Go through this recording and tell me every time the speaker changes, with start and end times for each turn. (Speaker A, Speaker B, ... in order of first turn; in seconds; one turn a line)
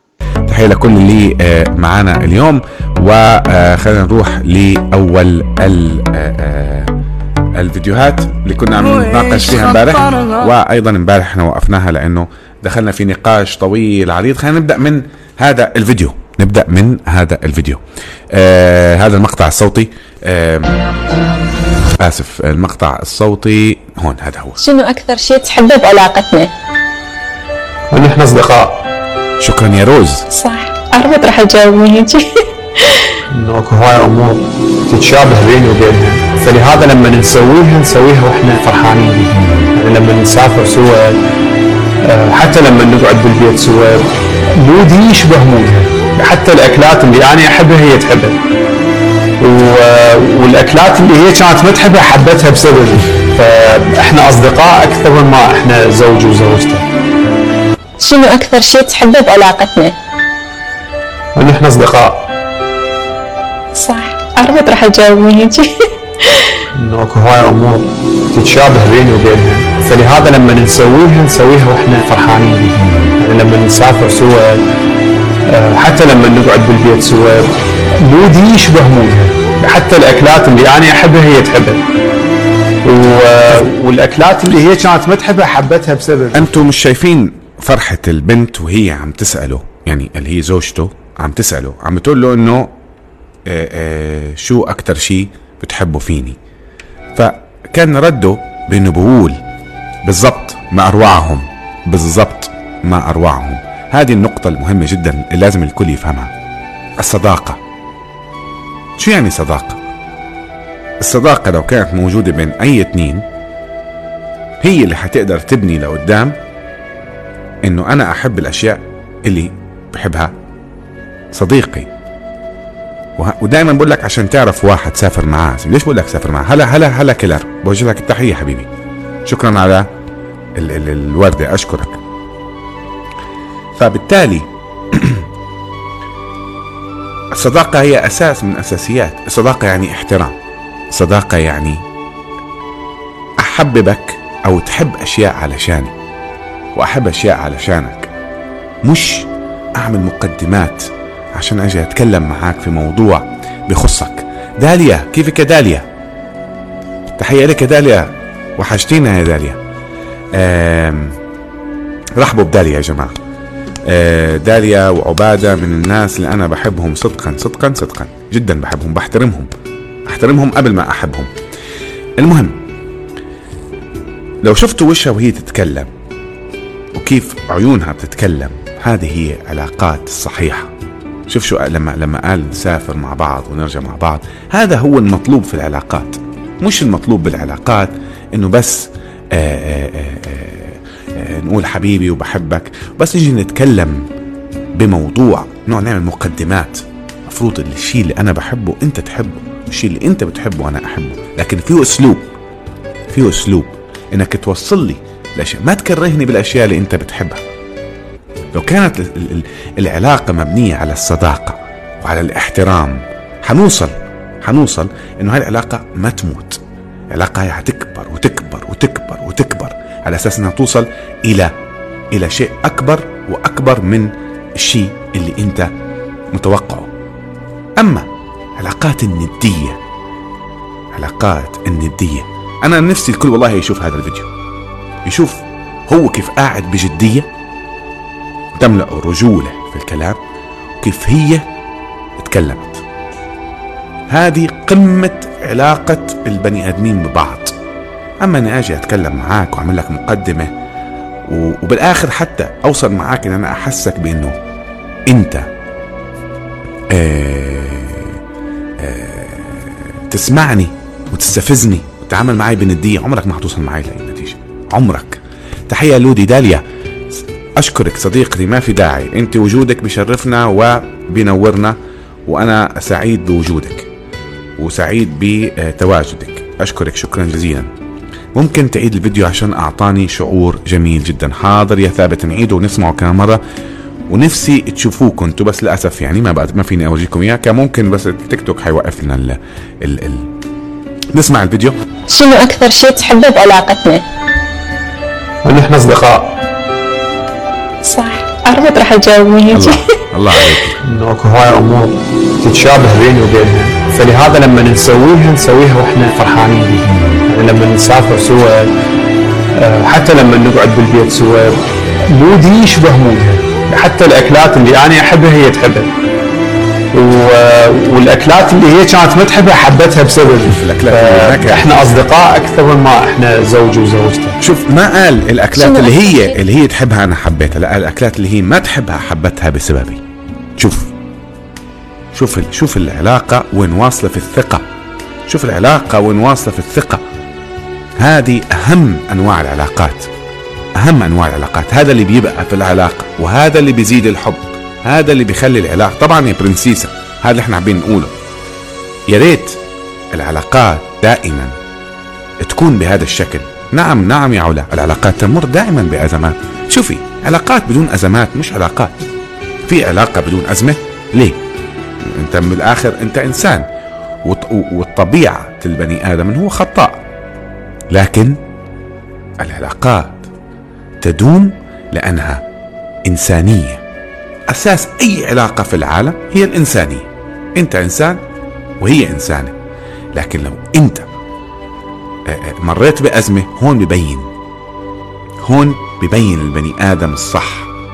Speaker A: 0.5-6.9
Speaker A: 7.5-20.8
Speaker A: 22.0-24.6
Speaker B: 24.6-26.5
Speaker C: 27.9-28.9
Speaker A: 29.4-30.3
Speaker B: 30.3-33.2
Speaker C: 33.3-41.2
Speaker C: 42.0-48.4
Speaker C: 49.4-56.9
Speaker B: 58.0-60.0
Speaker C: 61.4-62.3
Speaker B: 63.7-66.6
Speaker C: 66.8-74.7
Speaker C: 75.5-81.8
Speaker C: 82.8-86.6
Speaker A: 86.3-92.7
Speaker A: 93.5-96.4
Speaker A: 97.2-99.4
Speaker A: 100.0-106.3
Speaker A: 107.0-107.6
Speaker A: 109.0-109.8
Speaker A: 111.0-113.2
Speaker A: 114.6-116.3
Speaker A: 117.7-120.3
Speaker A: 121.3-121.9
Speaker A: 123.2-128.7
Speaker A: 129.3-129.9
Speaker A: 130.6-132.0
Speaker A: 133.8-135.2
Speaker A: 137.3-140.3
Speaker A: 140.9-141.8
Speaker A: 143.4-145.9
Speaker A: 146.8-148.1
Speaker A: 148.8-155.9
Speaker A: 157.2-159.6
Speaker A: 160.3-161.2
Speaker A: 162.2-163.2
Speaker A: 163.9-169.5
Speaker A: 170.1-171.3
Speaker A: 172.2-172.6
Speaker A: 174.4-175.9
Speaker A: 176.9-180.7
Speaker A: 181.3-194.1
Speaker A: 194.8-202.3
Speaker A: 203.1-207.4
Speaker A: 208.5-216.6
Speaker A: 217.1-221.5
Speaker A: 222.1-225.7
Speaker A: 226.3-226.9
Speaker A: 227.8-229.8
Speaker A: 230.9-234.3
Speaker A: 235.1-237.3
Speaker A: 238.6-240.2
Speaker A: 240.8-241.4
Speaker A: 242.2-242.8
Speaker A: 244.1-247.6
Speaker A: 248.2-250.5
Speaker A: 251.3-254.4
Speaker A: 255.1-255.5
Speaker A: 256.9-258.2
Speaker A: 258.8-266.6
Speaker A: 267.6-273.9
Speaker A: 274.6-277.7
Speaker A: 278.4-283.4
Speaker A: 284.1-290.3
Speaker A: 291.1-291.8
Speaker B: 292.1-294.1
Speaker C: 295.4-296.4
Speaker B: 297.8-299.9
Speaker A: 299.5-300.8
Speaker C: 300.8-308.7
Speaker C: 309.6-315.9
Speaker C: 316.9-324.4
Speaker A: 320.4-322.0
Speaker A: 324.4-330.0
Speaker B: 325.5-326.4
Speaker A: 330.6-330.9
Speaker A: 332.1-334.6
Speaker A: 335.3-337.0
Speaker A: 338.0-340.1
Speaker A: 340.8-348.1
Speaker A: 349.1-349.6
Speaker A: 350.1-351.5
Speaker A: 352.4-358.9
Speaker A: 359.7-361.4
Speaker A: 362.1-363.7
Speaker A: 364.2-367.1
Speaker A: 367.9-368.4
Speaker A: 369.4-370.3
Speaker A: 371.0-372.4
Speaker A: 373.1-373.8
Speaker A: 374.5-378.2
Speaker A: 378.8-379.5
Speaker A: 380.1-381.1
Speaker A: 382.3-384.3
Speaker A: 385.4-387.7